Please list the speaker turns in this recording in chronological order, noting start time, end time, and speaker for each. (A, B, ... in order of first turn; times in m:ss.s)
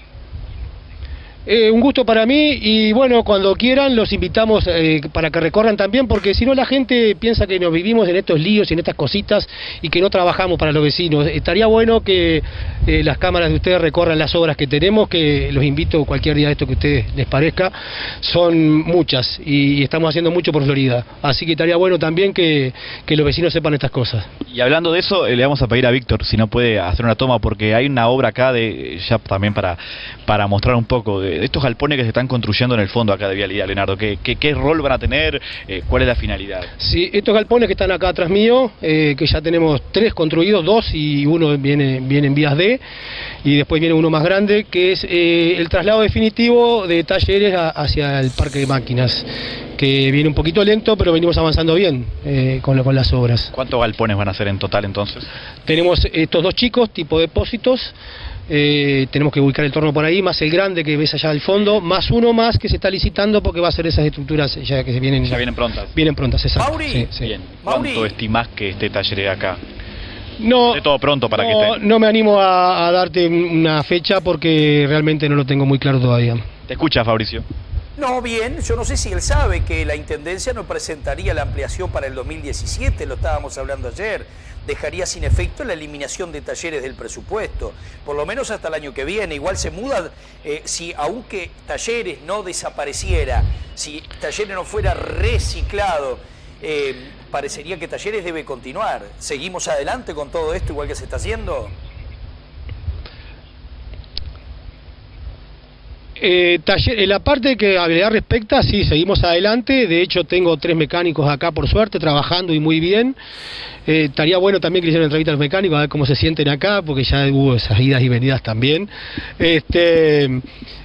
0:01.4-0:24.3 A
0:24.5-0:36.7 B
0:36.8-0:42.8 A
0:43.4-0:53.5 A
0:53.5-0:55.3 B
0:55.6-0:57.9 A
0:58.5-1:07.3 A
1:05.2-1:05.9 B
1:06.6-1:08.1 C
1:07.2-1:09.6 B
1:10.4-1:16.4 A
1:10.7-1:11.8 B
1:16.7-1:17.4 B
1:18.0-1:41.7 C
1:46.2-1:53.2 A
1:53.8-2:00.4 A